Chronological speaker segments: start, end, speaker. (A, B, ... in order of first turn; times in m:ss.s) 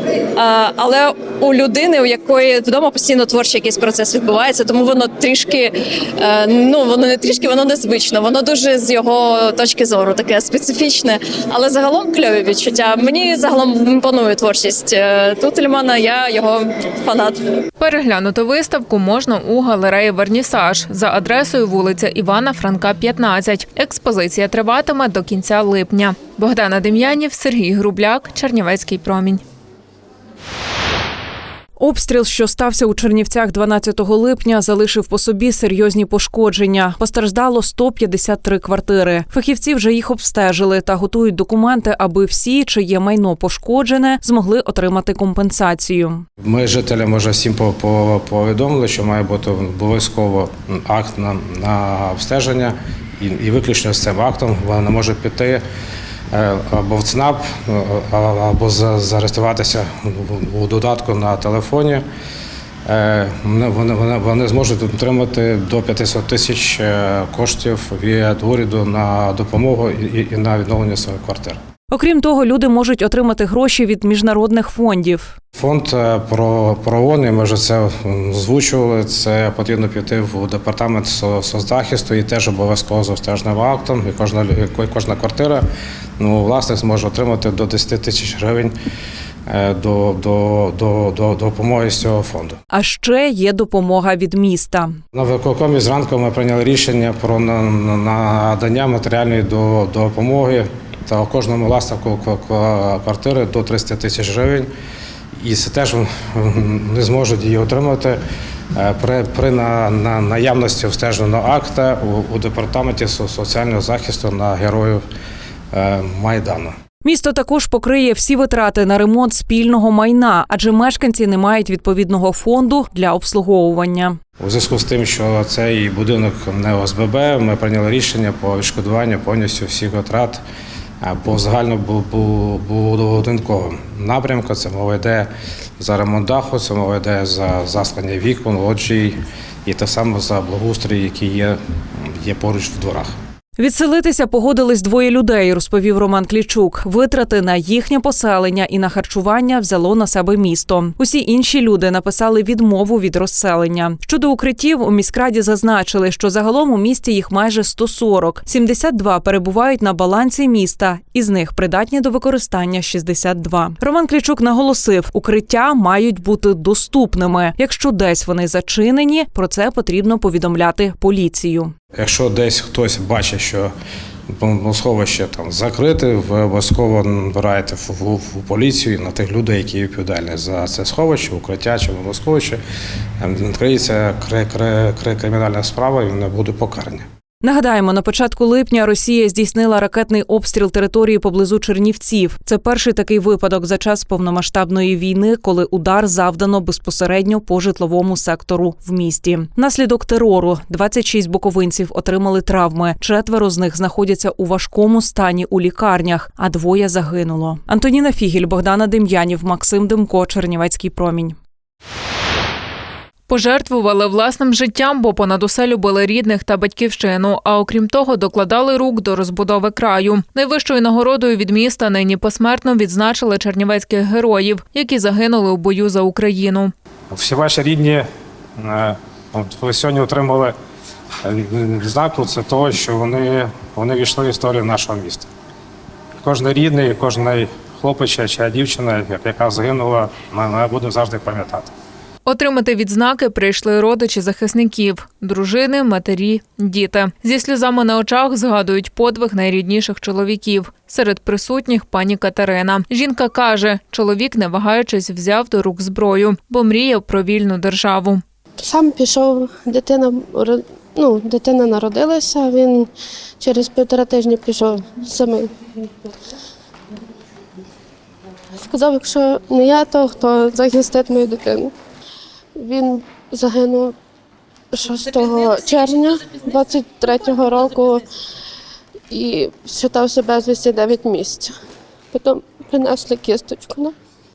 0:00.4-0:17.4 A
0:17.8-0:29.4 B
0:31.8-0:46.3 C
0:46.4-0:55.6 D
0:56.3-1:02.0 D
1:02.9-1:11.6 D
1:11.9-1:15.4 C
1:15.6-1:25.6 D
1:26.2-1:28.7 D
1:29.5-1:32.6 D
1:32.7-1:35.0 C
1:35.1-1:44.7 D
1:45.4-1:48.2 D
1:48.7-1:55.0 D
1:55.7-1:56.8 D
1:57.0-2:04.2 C
2:04.4-2:10.4 D
2:11.0-2:23.1 D
2:23.6-2:51.7 C
2:52.0-2:53.7 D
2:54.3-3:02.6 D
3:03.2-3:07.1 D
3:07.4-3:31.4 C
3:33.3-3:46.7 B
3:47.1-3:48.1 D
3:48.6-3:50.6 D
3:51.2-3:55.3 D
3:56.2-4:01.7 D
4:02.3-4:18.2 B
4:18.6-4:22.9 E
4:23.4-4:25.5 E
4:28.6-4:31.7 E
4:32.6-4:34.0 E
4:34.7-4:38.0 E
4:39.1-4:41.6 E
4:42.1-4:43.9 E